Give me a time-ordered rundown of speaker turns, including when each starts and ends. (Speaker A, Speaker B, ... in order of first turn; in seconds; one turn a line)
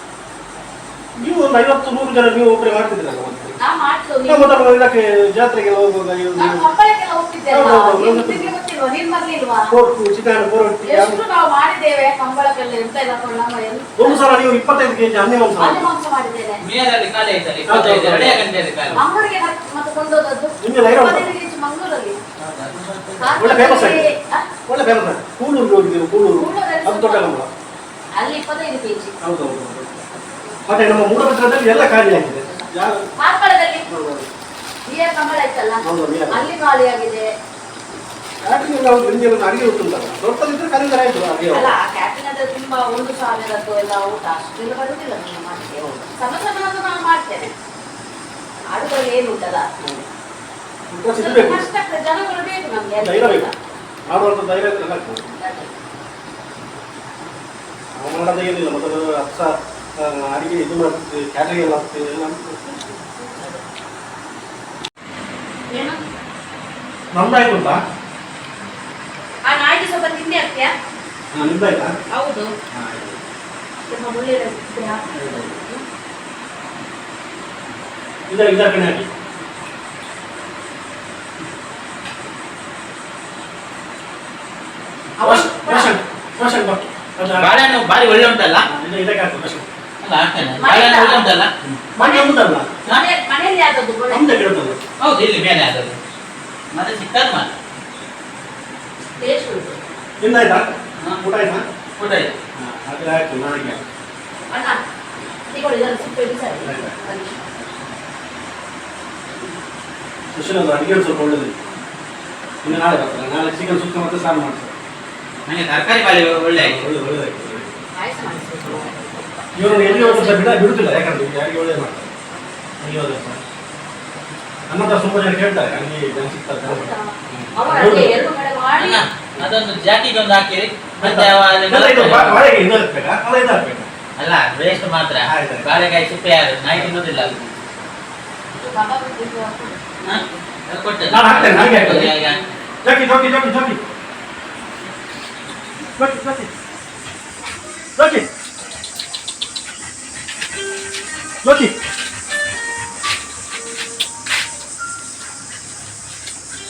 Speaker A: 1.2-3.6
Speaker B: 3.6-4.5
Speaker A: 4.3-6.6
Speaker B: 6.3-9.7
Speaker A: 7.5-8.5
Speaker A: 9.7-11.2
Speaker B: 10.8-14.3
Speaker A: 14.0-15.9
Speaker B: 15.6-16.6
Speaker C: 16.6-19.0
Speaker A: 17.7-19.0
Speaker B: 18.9-22.2
Speaker A: 20.6-21.3
Speaker C: 22.4-23.4
Speaker B: 23.2-24.5
Speaker A: 23.4-24.1
Speaker A: 24.7-27.5
Speaker B: 26.3-27.3
Speaker B: 28.2-29.1
Speaker A: 29.2-30.1
Speaker A: 30.7-33.1
Speaker B: 32.4-33.9
Speaker A: 33.9-34.3
Speaker B: 34.9-37.3
Speaker A: 35.8-36.5
Speaker A: 38.4-41.7
Speaker B: 41.5-47.5
Speaker B: 48.7-49.7
Speaker A: 49.8-50.0
Speaker A: 50.9-51.6
Speaker B: 51.1-53.5
Speaker A: 53.0-53.5
Speaker A: 54.1-55.3
Speaker B: 55.3-55.7
Speaker A: 57.9-62.8
Speaker B: 62.8-63.6
Speaker B: 65.7-66.0
Speaker A: 67.1-67.8
Speaker B: 69.4-70.7
Speaker A: 71.3-72.0
Speaker B: 72.1-72.5
Speaker A: 72.7-73.2
Speaker B: 73.9-75.8
Speaker A: 75.2-75.6
Speaker A: 78.3-79.1
Speaker B: 85.2-85.9
Speaker A: 85.2-87.6
Speaker C: 87.3-88.6
Speaker A: 88.6-89.7
Speaker C: 90.0-91.8
Speaker B: 90.4-91.4
Speaker A: 91.9-92.8
Speaker B: 92.0-94.4
Speaker A: 94.1-94.8
Speaker C: 95.0-96.0
Speaker C: 96.7-97.5
Speaker B: 99.2-99.8
Speaker A: 100.2-101.6
Speaker C: 102.0-102.3
Speaker A: 102.5-103.8
Speaker B: 104.5-104.8
Speaker B: 105.5-107.5
Speaker A: 106.6-107.0
Speaker A: 110.3-111.6
Speaker A: 112.6-114.7
Speaker C: 115.5-116.9
Speaker A: 116.5-117.7
Speaker B: 118.0-119.1
Speaker A: 119.5-122.1
Speaker B: 119.6-120.6
Speaker A: 122.8-123.4
Speaker A: 124.7-128.2
Speaker B: 126.6-129.1
Speaker C: 128.8-132.4
Speaker A: 131.0-133.9
Speaker C: 134.2-137.3
Speaker A: 135.2-135.7
Speaker A: 136.7-137.7
Speaker B: 138.5-140.5
Speaker C: 140.0-142.4
Speaker A: 141.1-142.1
Speaker A: 142.8-143.8
Speaker A: 146.0-146.5
Speaker A: 148.0-148.2
Speaker A: 151.4-151.8